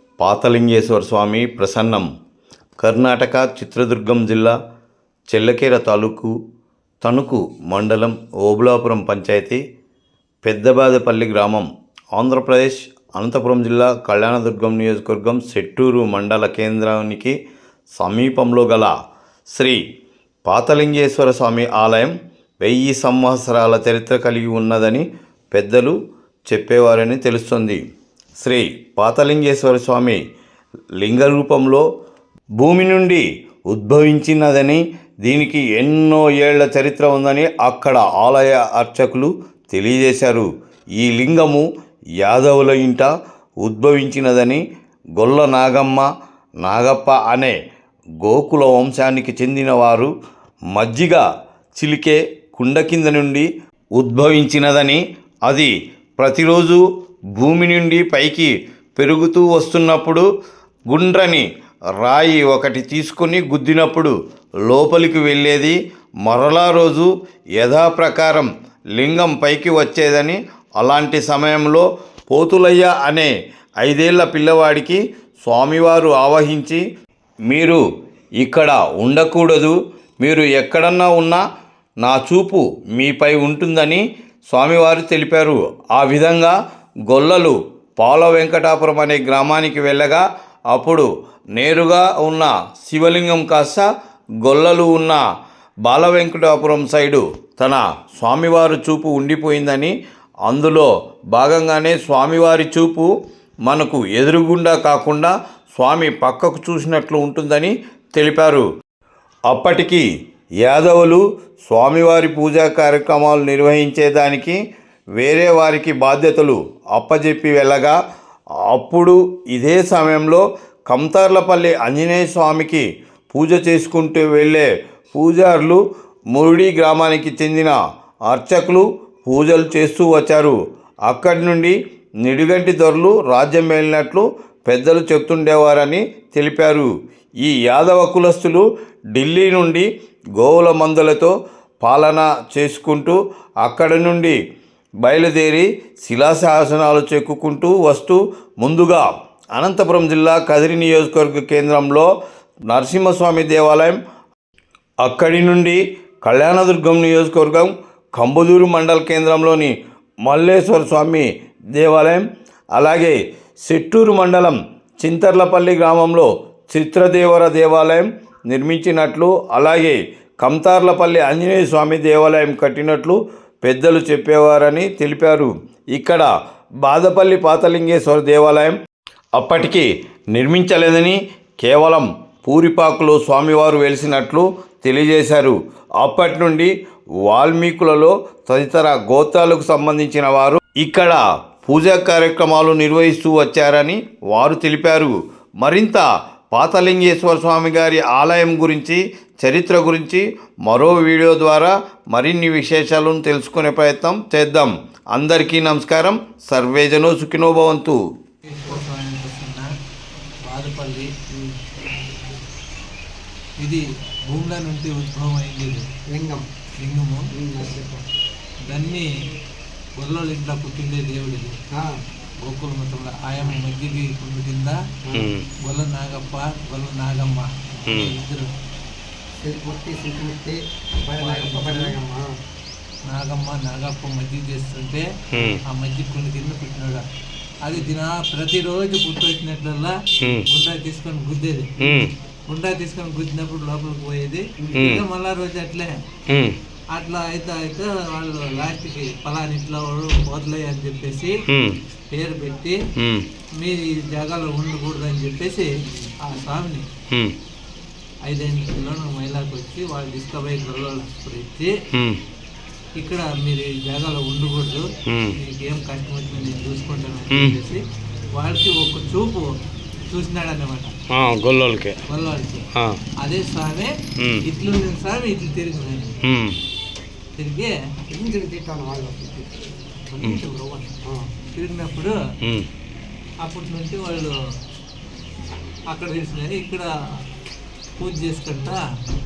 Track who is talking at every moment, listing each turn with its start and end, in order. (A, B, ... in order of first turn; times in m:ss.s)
0:00.2-0:02.1 A
0:02.8-0:04.6 A
0:05.3-0:06.3 A
0:07.0-0:09.6 A
0:10.4-0:17.4 A
0:17.9-0:18.9 A
0:19.5-0:19.8 A
0:20.4-0:25.9 A
0:26.5-0:27.8 A
0:28.4-0:30.2 A
0:31.0-0:31.8 A
0:32.6-0:41.6 A
0:42.2-0:43.1 A
0:43.6-0:44.6 A
0:45.2-0:46.1 A
0:46.6-0:47.5 A
0:48.2-0:50.1 A
0:50.7-0:51.2 A
0:51.8-0:56.8 A
0:57.3-1:00.2 A
1:00.9-1:01.4 A
1:02.0-1:04.1 A
1:04.6-1:13.3 A
1:13.8-1:16.8 A
1:17.5-1:17.8 A
1:18.4-1:21.4 A
1:22.0-1:26.6 A
1:27.1-1:33.8 A
1:34.4-1:35.2 A
1:35.8-1:39.9 A
1:40.4-1:43.1 A
1:43.6-1:48.6 A
1:49.5-1:50.0 A
1:50.6-1:54.6 A
1:55.2-1:57.9 A
1:58.7-2:05.8 A
2:06.3-2:07.8 A
2:08.3-2:10.6 A
2:11.1-2:16.9 A
2:17.4-2:24.4 A
2:25.0-2:32.1 A
2:32.7-2:34.0 A
2:35.0-2:39.7 A
2:40.2-2:56.3 A
2:56.8-2:58.8 A
2:59.3-3:06.7 A
3:07.2-3:28.0 A
3:28.4-3:29.7 B
3:30.4-3:31.1 B
3:31.3-3:32.4 C
3:33.6-3:35.8 B
3:36.1-3:36.5 C
3:36.8-3:37.3 B
3:37.4-3:38.0 C
3:38.6-3:39.1 B
3:40.0-3:41.6 B
3:41.7-3:42.0 C
3:42.4-3:44.8 B
3:45.1-3:45.3 C
3:45.1-3:45.5 D
3:45.6-3:48.4 B
3:47.9-3:48.1 D
3:49.4-3:52.3 C
3:51.2-3:52.0 B
3:53.1-3:55.0 B
3:55.3-3:55.6 D
3:55.6-3:57.0 B
3:57.6-4:00.0 B
4:00.5-4:01.7 B
4:01.8-4:02.1 D
4:02.5-4:06.0 B
4:04.6-4:04.9 C
4:04.7-4:05.0 D
4:06.3-4:06.6 D
4:06.9-4:11.4 B
4:11.5-4:11.8 D
4:12.1-4:12.8 B
4:13.0-4:13.2 D
4:13.6-4:15.7 B
4:16.2-4:16.8 B
4:18.2-4:21.7 B
4:21.9-4:22.2 D
4:23.0-4:27.8 B
4:25.1-4:25.3 D
4:27.3-4:27.6 D
4:28.4-4:29.5 B
4:30.1-4:30.9 B
4:31.1-4:32.0 D
4:32.1-4:32.7 B
4:33.2-4:36.1 B
4:34.2-4:34.4 D
4:36.2-4:36.6 D
4:37.4-4:37.7 B
4:38.1-4:39.5 C
4:40.1-4:41.0 B
4:41.5-4:42.1 B
4:42.4-4:42.7 D
4:43.4-4:44.3 B
4:45.9-4:46.9 B
4:48.0-4:48.8 B